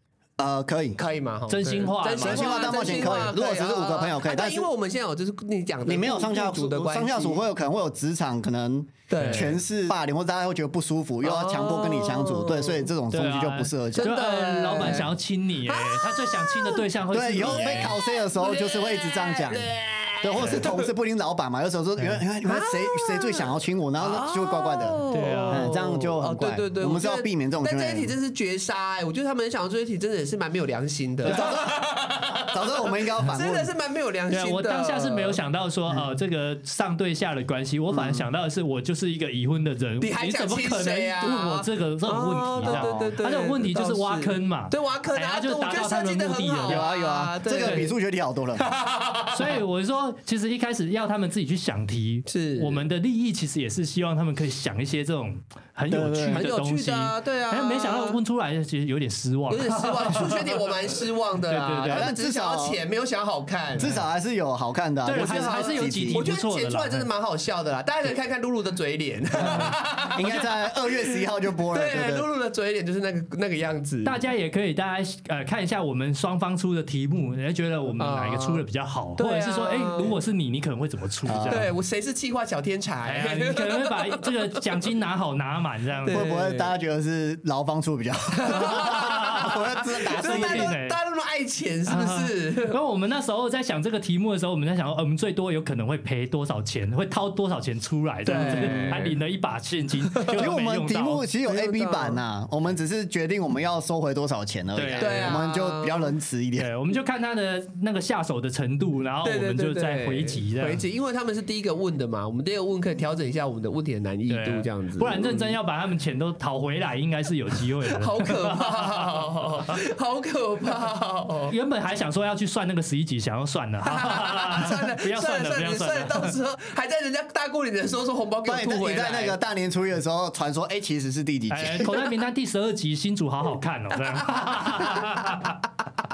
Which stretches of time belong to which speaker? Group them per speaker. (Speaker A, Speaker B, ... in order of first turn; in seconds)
Speaker A: 0.4-1.0, 2.2-4.7, 5.8-14.1, 17.1-19.7, 20.2-28.1, 31.2-31.8, 32.4-33.7, 37.9-38.2, 42.6-43.1, 46.6-48.6, 55.9-56.5, 61.8-62.8, 63.8-66.2, 69.4-72.2, 81.3-81.7, 86.1-90.7, 98.3-99.0, 100.3-106.7, 128.4-131.9
Speaker B: 1.0-7.4, 9.1-9.6, 11.2-12.9, 13.9-15.1, 15.7-16.9, 17.4-20.9, 22.4-35.4, 40.0-47.9, 48.6-49.6, 52.3-52.8, 56.3-58.2, 59.5-64.0, 65.1-74.2, 78.0-78.6, 79.2-80.2, 81.5-84.3, 86.0-86.7, 88.3-89.6, 90.1-92.8, 98.2-99.2, 100.1-100.4, 101.4-102.2, 105.0-106.1, 109.2-115.5, 117.9-121.5, 123.8-129.4, 134.4-135.0
Speaker C: 1.5-2.9, 9.2-9.5, 13.1-17.9, 20.4-20.6, 25.1-25.8, 34.3-46.9, 49.3-60.6, 61.5-62.1, 65.0-67.1, 70.2-70.5, 74.0-81.7, 83.0-86.2, 88.5-91.0, 91.9-101.2, 104.7-105.4, 106.6-110.8, 114.3-119.2, 121.5-126.3, 131.5-135.6